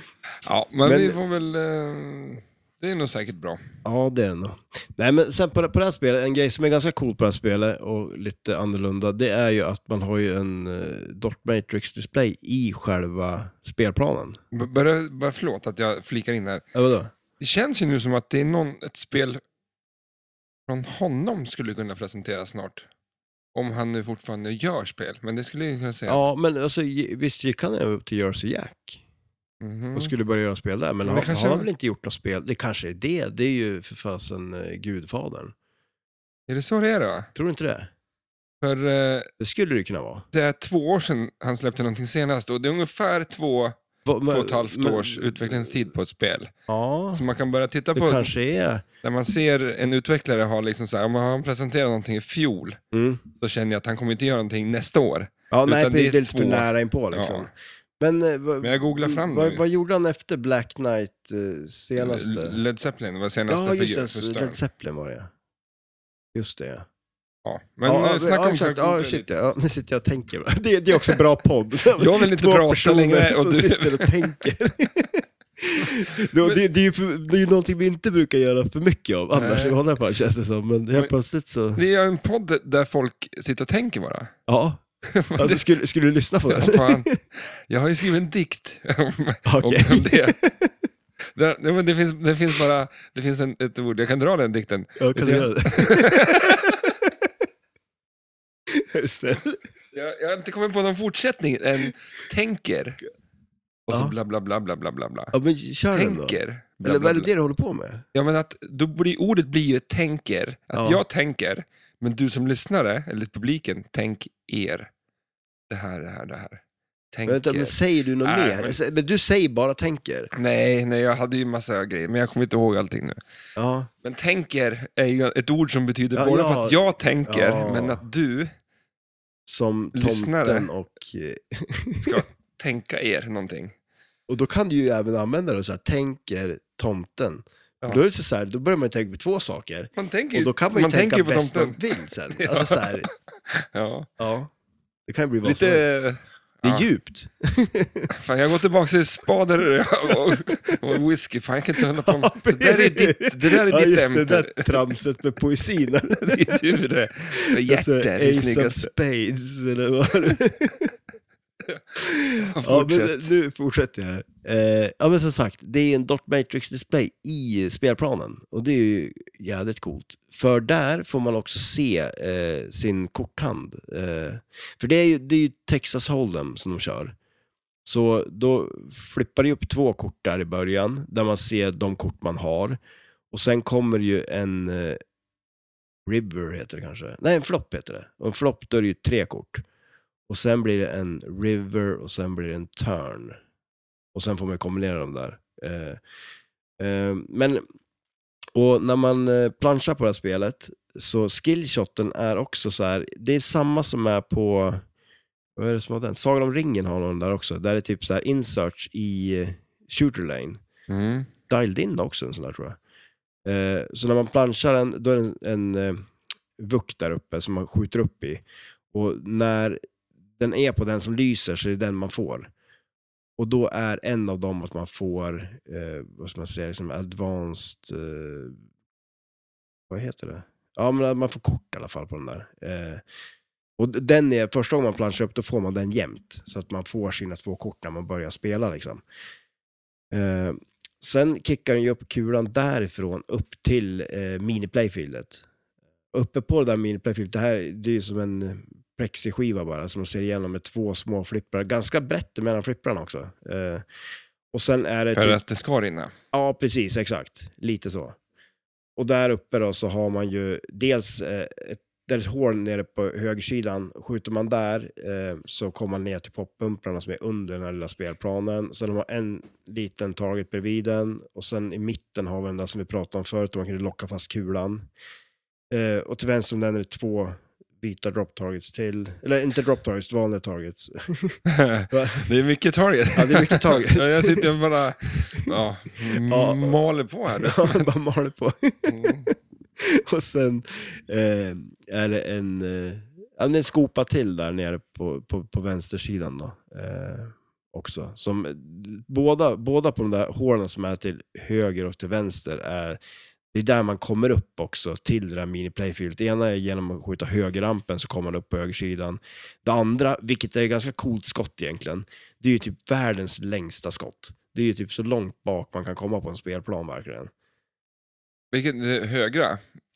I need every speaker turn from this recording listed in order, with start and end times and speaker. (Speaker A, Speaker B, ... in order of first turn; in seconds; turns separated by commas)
Speaker A: 0.4-3.6, Speaker B: 0.8-1.2, Speaker B: 3.8-14.4, Speaker A: 14.5-16.6, Speaker B: 16.7-17.1, Speaker A: 17.4-19.4, Speaker A: 20.7-22.9, Speaker A: 23.5-26.2, Speaker B: 26.1-29.0, Speaker A: 29.6-30.1, Speaker B: 29.9-35.5, Speaker A: 31.0-31.7, Speaker A: 36.5-37.3, Speaker B: 37.3-37.9, Speaker A: 38.6-39.3, Speaker B: 39.4-40.2, Speaker A: 40.3-46.5, Speaker B: 44.0-45.8, Speaker B: 46.7-47.2, Speaker A: 47.1-48.3, Speaker B: 48.0-48.8, Speaker A: 49.0-52.8, Speaker B: 52.9-53.2, Speaker A: 53.4-57.5, Speaker B: 55.5-62.6, Speaker A: 58.6-59.6, Speaker A: 62.0-64.6, Speaker B: 63.5-65.3, Speaker B: 66.3-66.8, Speaker A: 67.4-69.3, Speaker B: 67.8-81.8, Speaker A: 72.0-74.4, Speaker A: 75.8-76.6, Speaker A: 79.3-79.8, Speaker A: 81.7-84.3, Speaker B: 84.5-84.8, Speaker A: 85.1-85.6, Speaker B: 85.3-87.2, Speaker A: 86.5-90.4, Speaker B: 89.4-90.7, Speaker A: 91.3-96.9, Speaker B: 95.0-96.7, Speaker B: 98.7-99.6, Speaker A: 99.9-103.0, Speaker A: 103.9-105.3, Speaker B: 105.3-108.0, Speaker A: 105.9-107.3, Speaker A: 108.1-114.9, Speaker B: 110.7-111.0, Speaker A: 115.7-118.8, Speaker B: 117.3-120.3, Speaker A: 120.3-123.2, Speaker B: 123.5-123.9, Speaker A: 124.0-128.5, Speaker B: 126.1-128.0, Speaker B: 129.5-132.2, Speaker A: 129.9-130.7, Speaker A: 132.0-133.7, Speaker B: 134.3-143.1, Speaker A: 139.9-144.1, Speaker B: 144.2-144.5, Speaker B: 145.1-145.9, Speaker A: 145.4-146.9, Speaker B: 146.6-148.1, Speaker A: 148.1-154.8, Speaker B: 150.3-150.7, Speaker B: 151.9-156.8, Speaker A: 156.1-158.9, Speaker B: 157.3-160.9, Speaker A: 161.7-163.3, Speaker B: 162.0-177.1, Speaker B: 177.8-182.8, Speaker B: 183.3-185.0, Speaker B: 186.1-189.6, Speaker B: 190.3-193.4, Speaker B: 194.1-196.0, Speaker B: 196.8-197.6, Speaker B: 198.5-204.8, Speaker B: 205.6-210.6, Speaker A: 210.9-211.3, Speaker B: 211.5-212.8, Speaker B: 213.4-219.8, Speaker B: 220.4-222.5, Speaker B: 223.4-228.6, Speaker B: 229.9-233.0, Speaker B: 233.8-239.0, Speaker B: 240.1-245.4, Speaker B: 246.1-253.8, Speaker B: 254.5-255.4, Speaker A: 255.1-256.1, Speaker B: 256.3-258.2, Speaker B: 259.0-274.9, Speaker B: 275.7-281.4, Speaker A: 281.5-287.9, Speaker B: 281.9-282.3, Speaker B: 283.1-284.5, Speaker B: 286.1-286.8, Speaker B: 287.3-303.0, Speaker A: 288.9-289.3, Speaker B: 303.5-317.3, Speaker A: 318.5-319.6